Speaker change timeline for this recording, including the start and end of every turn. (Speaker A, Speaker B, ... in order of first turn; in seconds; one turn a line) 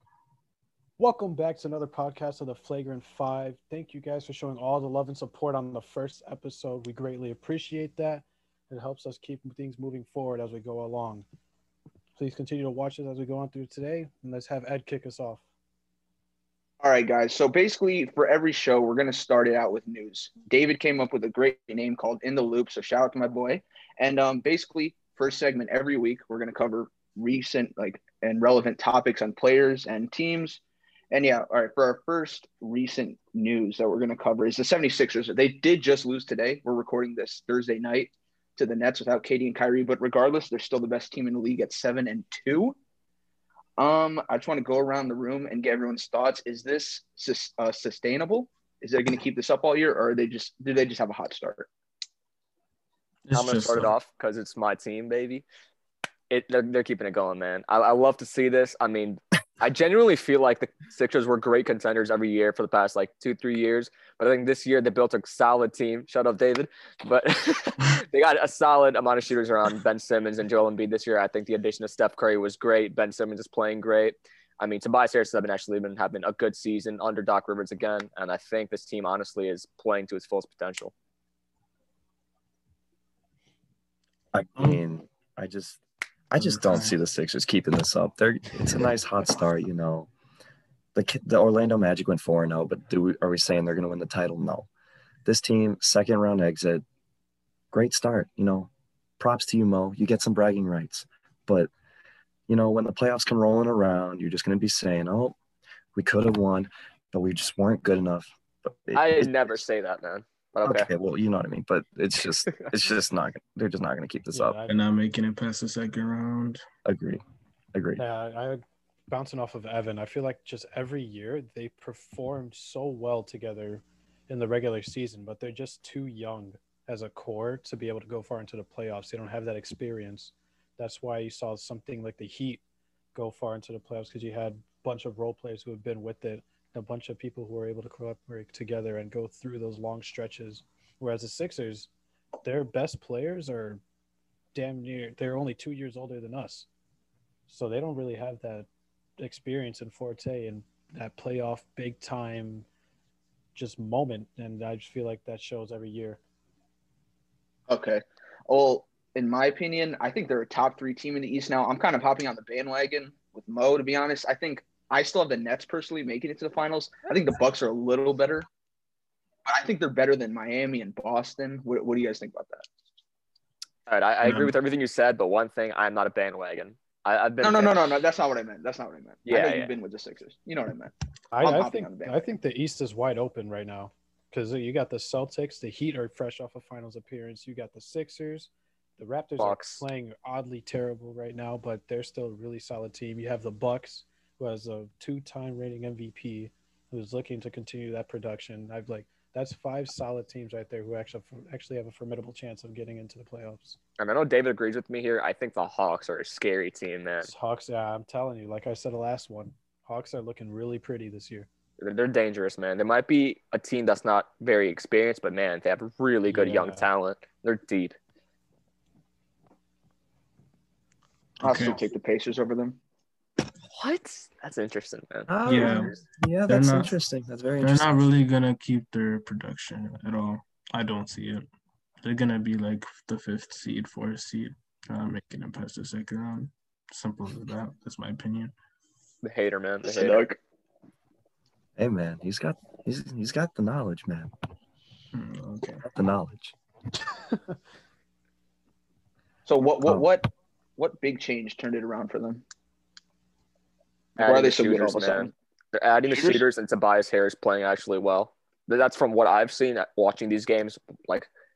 Speaker A: 1.0-11.2
Speaker A: 12.2-15.4
Speaker B: 16.8-42.7
Speaker B: 43.8-51.7
Speaker C: 53.3-53.9
Speaker D: 53.3-55.4
Speaker D: 56.3-80.9
Speaker E: 84.3-90.1
Speaker C: 86.3-87.0
Speaker E: 90.9-94.7
Speaker E: 95.2-96.8
Speaker E: 97.7-101.7
Speaker E: 102.5-105.3
Speaker E: 105.9-109.6
Speaker D: 108.9-110.9
Speaker E: 110.6-114.6
Speaker A: 114.3-114.8
Speaker C: 114.7-116.6
Speaker E: 116.8-117.2
Speaker E: 117.7-118.0
Speaker A: 118.0-132.6
Speaker A: 133.1-141.9
Speaker A: 142.4-143.8
Speaker A: 144.5-146.7
Speaker A: 147.5-148.7
Speaker A: 149.2-152.7
Speaker A: 153.5-156.2
Speaker B: 157.7-168.5
Speaker B: 169.4-172.7
Speaker D: 173.9-178.0
Speaker C: 174.2-174.6
Speaker B: 177.4-182.3
Speaker D: 179.2-179.7
Speaker A: 181.3-203.8
Speaker D: 189.4-189.8
Speaker D: 204.0-207.3
Speaker A: 207.2-211.5
Speaker D: 211.8-218.0
Speaker A: 216.3-216.9
Speaker C: 221.4-221.8
Speaker B: 221.4-222.8
Speaker D: 223.7-226.0
Speaker E: 225.3-227.9
Speaker C: 225.4-225.9
Speaker C: 226.5-226.9
Speaker C: 227.6-231.4
Speaker C: 232.0-238.5
Speaker D: 239.2-240.3
Speaker B: 239.8-240.4
Speaker E: 241.8-244.3
Speaker C: 245.1-245.8
Speaker E: 245.8-246.5
Speaker B: 249.4-252.4
Speaker B: 254.2-255.3
Speaker D: 254.2-261.3
Speaker B: 256.0-256.4